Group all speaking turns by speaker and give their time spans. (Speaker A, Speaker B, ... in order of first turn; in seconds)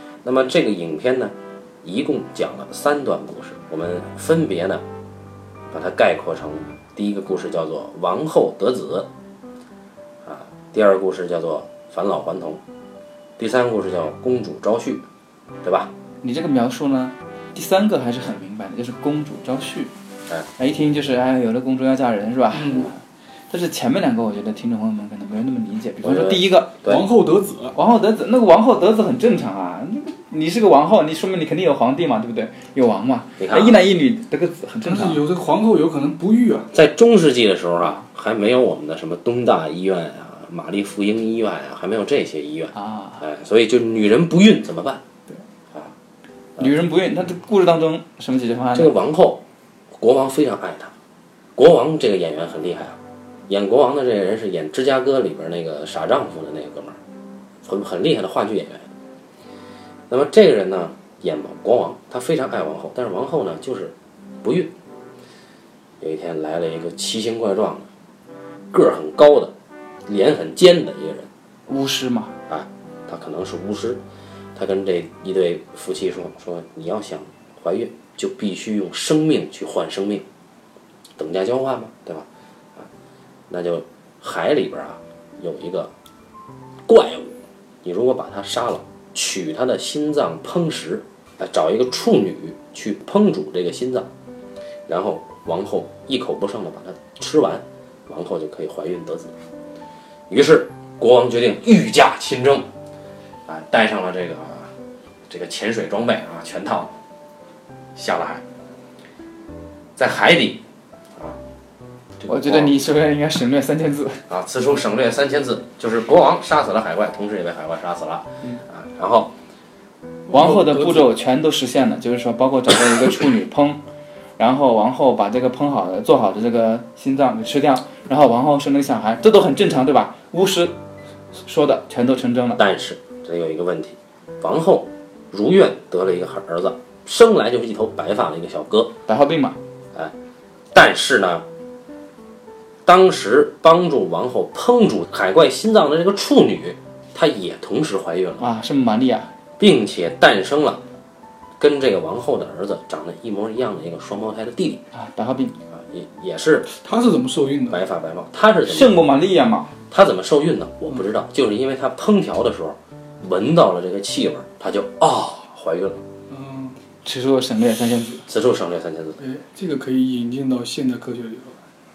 Speaker A: 0.2-4.8, 5.7-9.1, 10.2-12.6, 13.4-15.1, 15.6-15.9, 26.0-27.0, 33.4-33.8, 36.7-45.0, 48.7-49.4, 50.0-50.9, 51.6-57.0, 57.6-58.9, 60.1-64.7, 66.0-67.9, 68.7-69.5, 70.1-71.3, 72.5-74.0, 74.5-80.3, 81.2-82.9, 83.5-85.9, 86.9-94.1, 94.9-99.3, 100.3-102.7, 103.5-104.7, 105.3-107.0, 108.0-108.4, 110.0-110.6, 112.2-112.8, 114.3-119.3, 132.6-138.9, 140.7-141.5, 142.9-148.5, 149.6-150.8, 151.6-154.8, 155.7-156.7, 157.7-159.0, 159.9-166.0, 168.3-169.2
Speaker B: 16.2-19.9, 20.6-23.0, 23.5-26.8, 27.8-35.2, 42.7-43.2, 46.6-48.9, 71.7-72.4, 112.3-114.2, 120.3-123.8, 124.4-130.7, 131.4-132.6, 139.1-139.6, 148.4-149.3, 154.9-155.6, 158.7-159.7, 167.0-168.2
Speaker C: 22.5-22.9, 26.8-27.8, 34.8-36.7, 120.3-121.1, 156.7-157.8, 166.3-166.8, 169.2-171.6